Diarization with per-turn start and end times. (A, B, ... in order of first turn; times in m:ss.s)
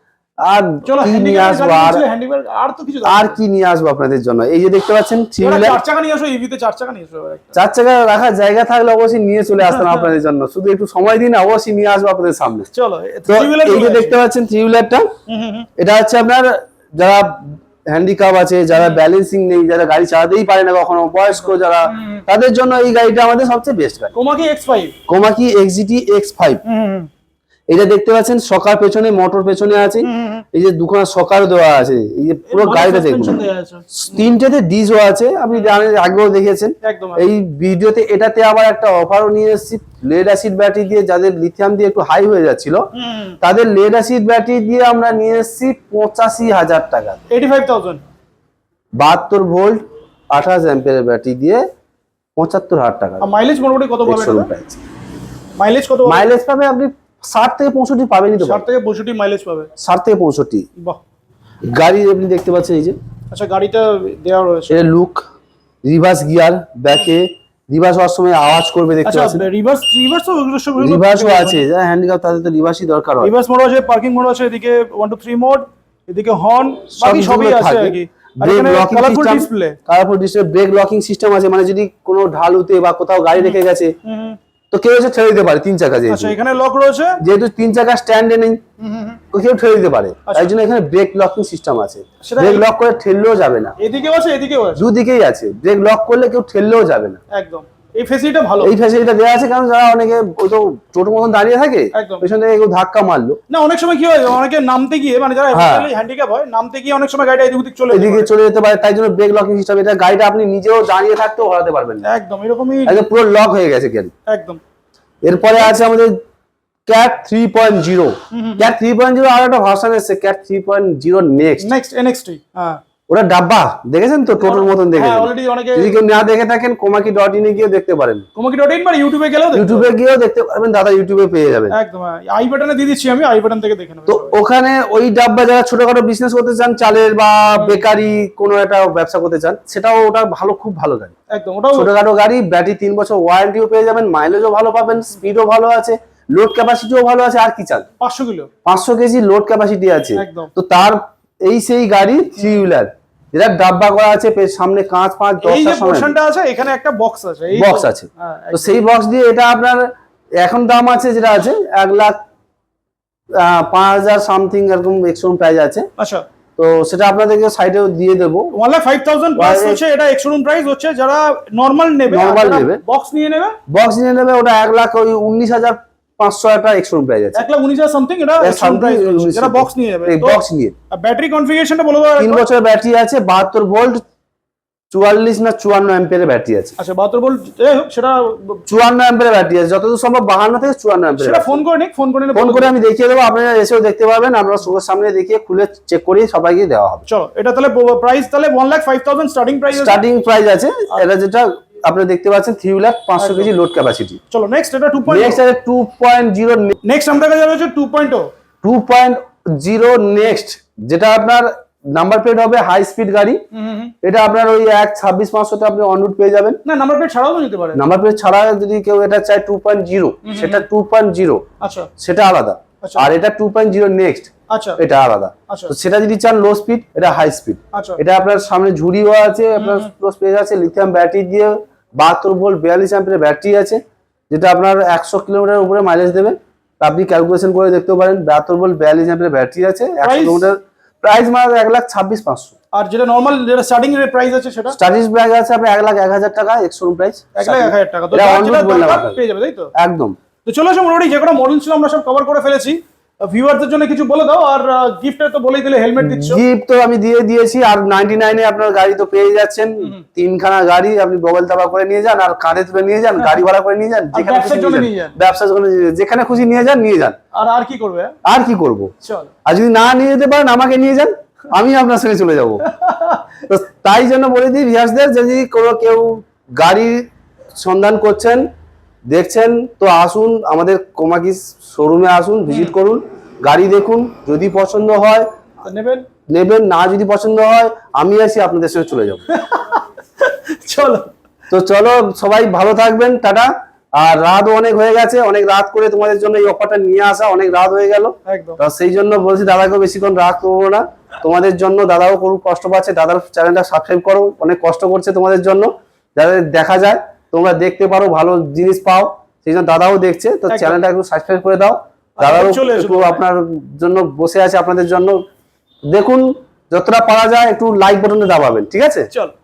0:00.4-0:02.0 A
0:00.8-0:03.4 B
0:03.0-0:05.8 A
0:05.4-0:07.6 B
0:07.6-0:12.7 A
0:12.7-0:14.2 B
0:13.3-0:15.1 A
0:15.3-0:15.7 B
0:15.8-0:24.1 A
0:21.9-0:22.2 B
0:24.1-0:24.9 B
0:25.1-0:26.6 A
0:26.6-0:27.1 B
0:27.7-0:42.8 A
0:30.0-0:30.4 B
0:32.5-0:34.2 B
0:36.8-0:37.3 B
0:42.9-0:43.4 B
0:43.4-0:47.2 A
0:47.3-0:48.0 B
0:49.0-0:51.6 A
0:52.4-0:53.2 A
0:53.2-0:54.5 B
0:54.0-0:54.8 A
0:55.6-0:56.3 B
0:56.0-0:58.7 A
0:58.4-0:59.7 B
0:59.8-1:00.6 A
1:01.6-1:03.0 A
1:03.3-1:04.8 B
1:04.7-1:05.3 A
1:05.8-1:09.4 A
1:09.0-1:11.6 B
1:10.8-1:13.3 A
1:13.2-1:19.8 B
1:16.9-1:23.9 A
1:23.4-1:24.4 B
1:24.7-1:26.4 A
1:26.1-1:27.2 B
1:27.2-1:28.6 A
1:28.8-1:29.2 B
1:29.3-1:33.7 A
1:30.2-1:30.5 B
1:32.2-1:32.7 B
1:33.8-1:34.9 B
1:34.8-1:37.2 A
1:37.3-1:38.7 B
1:38.6-1:43.4 A
1:41.9-1:42.3 B
1:43.5-1:48.3 B
1:45.5-1:45.9 A
1:47.9-1:52.0 A
1:52.0-1:53.0 B
1:52.8-1:54.1 A
1:54.3-1:54.6 B
1:55.2-1:56.2 A
1:56.9-2:01.7 A
1:58.3-1:58.7 B
2:01.6-2:02.8 B
2:03.1-2:08.2 A
2:04.4-2:06.0 B
2:08.4-2:09.9 B
2:09.5-2:11.7 A
2:11.7-2:14.3 B
2:14.1-2:21.1 A
2:21.3-2:21.9 B
2:21.7-2:27.8 A
2:28.0-2:28.5 B
2:28.6-2:36.1 A
2:30.2-2:30.5 B
2:35.4-2:38.8 B
2:37.5-2:39.8 A
2:40.4-2:42.2 A
2:43.3-2:45.9 A
2:46.0-2:46.2 B
2:46.6-2:48.5 A
2:48.5-2:53.6 B
2:49.4-2:49.8 A
2:52.1-2:52.8 A
2:53.7-2:57.4 A
2:57.3-3:00.4 B
2:58.4-3:00.7 A
3:00.9-3:02.4 B
3:02.2-3:04.0 A
3:04.9-3:06.7 A
3:06.8-3:08.7 B
3:08.7-3:11.6 A
3:11.2-3:12.7 B
3:12.4-3:17.0 A
3:17.1-3:20.0 B
3:19.7-3:24.2 A
3:23.2-3:23.5 B
3:24.3-3:25.4 B
3:25.1-3:26.7 A
3:26.8-3:28.3 B
3:28.6-3:33.4 A
3:33.5-3:33.9 B
3:34.0-3:36.6 A
3:36.6-3:37.8 B
3:37.7-3:41.4 A
3:40.2-3:40.6 B
3:41.6-3:41.9 B
3:42.0-4:02.5 A
3:42.8-3:43.1 B
3:44.5-3:44.8 B
3:47.7-3:48.0 B
3:49.6-3:49.9 B
4:00.0-4:00.4 B
4:02.7-4:04.8 B
4:04.7-4:09.2 A
4:07.3-4:09.7 B
4:09.7-4:10.2 A
4:10.4-4:16.4 B
4:16.0-4:27.2 A
4:24.1-4:25.1 B
4:27.3-4:28.1 B
4:28.2-4:28.9 A
4:29.0-4:29.3 B
4:29.4-4:32.6 A
4:32.6-4:33.3 B
4:33.5-4:38.5 A
4:39.1-4:45.3 A
4:42.5-4:42.7 B
4:45.6-4:46.0 B
4:46.3-4:49.2 A
4:49.3-4:51.1 B
4:51.5-5:15.2 A
4:58.3-4:58.6 B
5:10.5-5:10.8 B
5:12.2-5:13.2 B
5:15.9-5:19.1 A